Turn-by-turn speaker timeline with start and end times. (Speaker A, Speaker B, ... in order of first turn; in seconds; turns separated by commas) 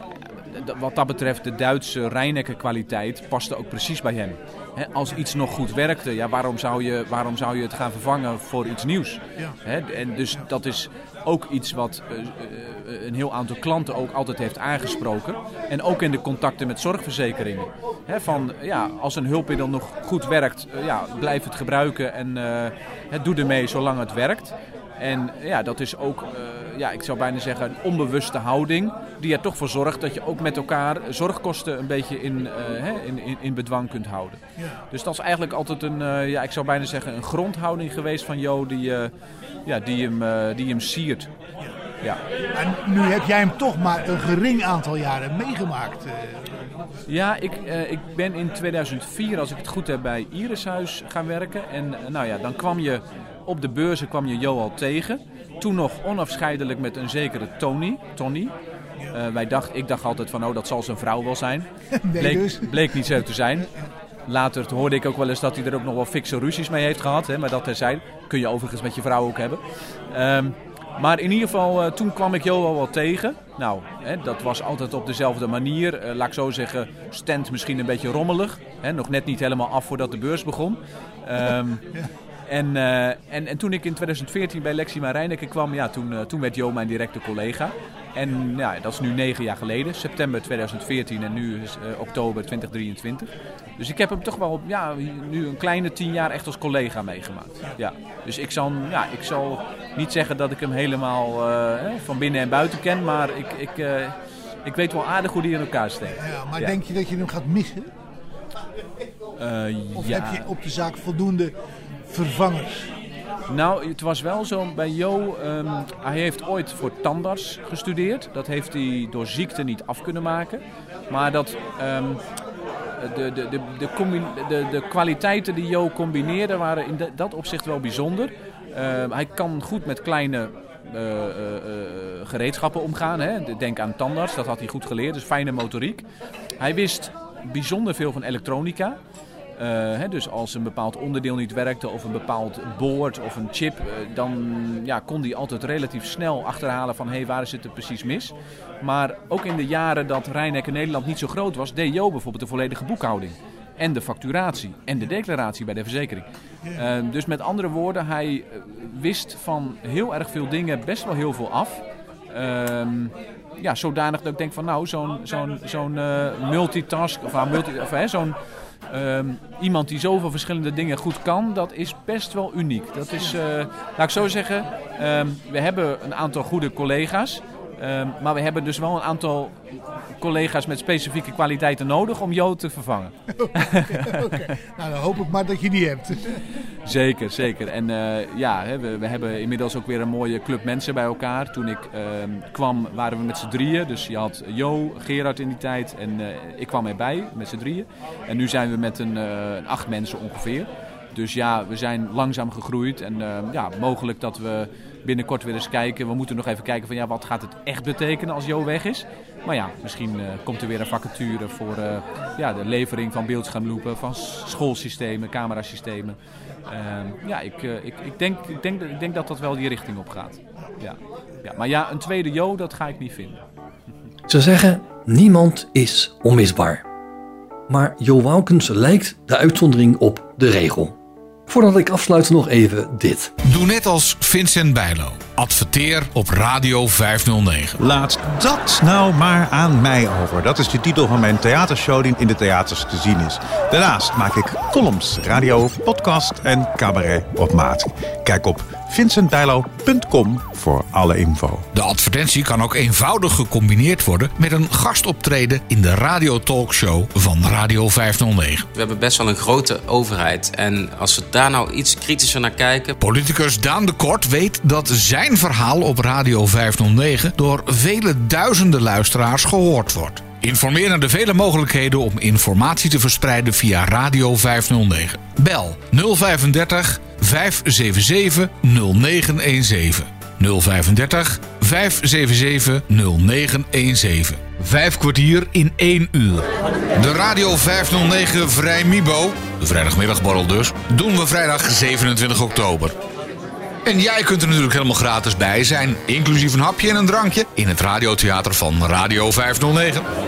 Speaker A: 0.4-39.1, Speaker B: 34.6-34.8, Speaker A: 39.7-41.3, Speaker B: 42.5-46.6, Speaker A: 47.1-58.5, Speaker A: 59.1-63.7, Speaker B: 62.0-63.2, Speaker A: 64.3-69.6, Speaker A: 70.1-106.8, Speaker B: 106.2-107.9, Speaker A: 109.4-110.5, Speaker B: 110.0-111.5, Speaker B: 112.1-112.9, Speaker A: 113.5-122.2, Speaker A: 123.0-136.0, Speaker A: 136.6-139.0, Speaker A: 139.6-168.4, Speaker B: 156.6-156.9, Speaker A: 168.9-179.7, Speaker A: 180.2-184.5, Speaker B: 183.4-186.4, Speaker A: 186.8-223.4, Speaker C: 224.3-226.8, Speaker C: 227.7-230.9, Speaker C: 231.5-233.3, Speaker D: 233.5-237.8, Speaker E: 237.8-251.7, Speaker D: 251.7-258.7, Speaker F: 258.7-263.0, Speaker D: 263.0-286.5, Speaker D: 287.0-292.9, Speaker D: 293.9-300.0